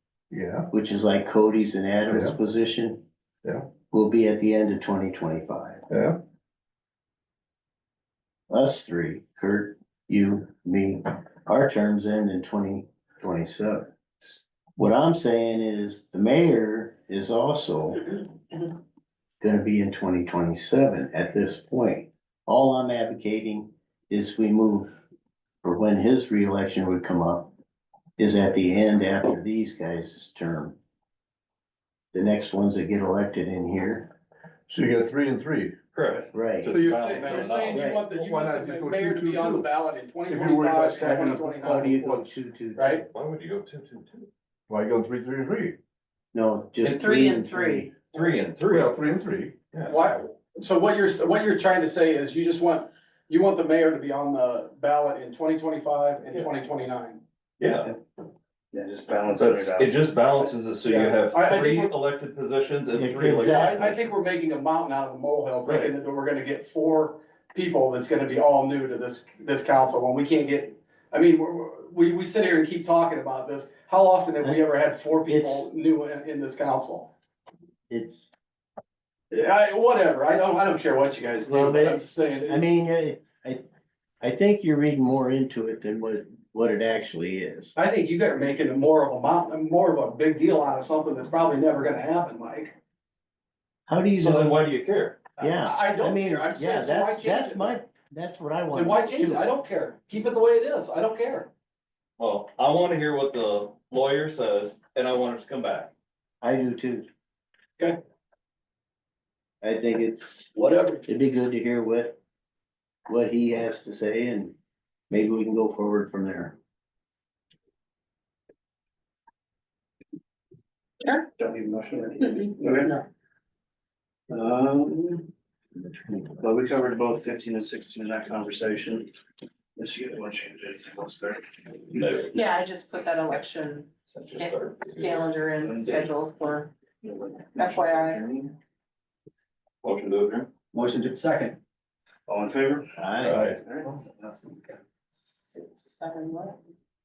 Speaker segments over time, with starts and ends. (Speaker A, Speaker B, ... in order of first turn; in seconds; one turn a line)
Speaker A: 0.3-0.7
Speaker B: 0.7-3.0
Speaker A: 2.1-2.4
Speaker B: 3.9-5.8
Speaker A: 5.9-6.2
Speaker B: 8.5-18.3
Speaker B: 19.4-24.9
Speaker B: 25.6-27.5
Speaker B: 28.2-30.8
Speaker B: 32.1-34.1
Speaker A: 34.7-35.8
Speaker C: 35.9-37.8
Speaker B: 36.3-36.7
Speaker D: 36.6-42.1
Speaker A: 37.7-39.7
Speaker B: 37.8-38.0
Speaker A: 40.3-42.3
Speaker B: 41.6-43.0
Speaker D: 42.8-43.1
Speaker C: 43.1-44.3
Speaker A: 44.7-45.8
Speaker B: 46.3-48.0
Speaker E: 46.9-47.9
Speaker C: 48.1-49.0
Speaker A: 48.6-49.7
Speaker C: 49.7-50.2
Speaker D: 49.9-57.2
Speaker C: 57.6-57.9
Speaker F: 58.7-60.5
Speaker C: 59.3-64.2
Speaker D: 60.9-61.9
Speaker B: 63.0-64.0
Speaker D: 63.5-77.1
Speaker B: 75.3-75.7
Speaker B: 77.9-78.3
Speaker D: 79.3-82.8
Speaker B: 81.5-83.7
Speaker B: 84.2-87.8
Speaker D: 87.8-92.7
Speaker B: 93.9-94.6
Speaker C: 94.2-95.2
Speaker D: 95.4-97.8
Speaker B: 95.4-99.5
Speaker D: 98.7-101.5
Speaker C: 102.2-105.9
Speaker B: 106.4-107.1
Speaker B: 109.6-110.5
Speaker D: 110.6-111.0
Speaker B: 111.1-112.2
Speaker B: 113.1-114.5
Speaker B: 115.1-116.6
Speaker F: 121.4-123.0
Speaker E: 122.2-123.0
Speaker F: 124.3-125.3
Speaker F: 126.4-129.1
Speaker F: 129.8-132.1
Speaker C: 131.9-132.4
Speaker E: 132.3-136.7
Speaker C: 134.1-135.2
Speaker F: 135.6-136.1
Speaker F: 137.0-138.4
Speaker E: 137.5-138.3
Speaker C: 139.8-140.5
Speaker F: 140.7-141.6
Speaker F: 142.3-142.9
Speaker B: 143.0-143.4
Speaker C: 143.2-143.6
Speaker F: 143.6-144.7
Speaker E: 145.2-146.6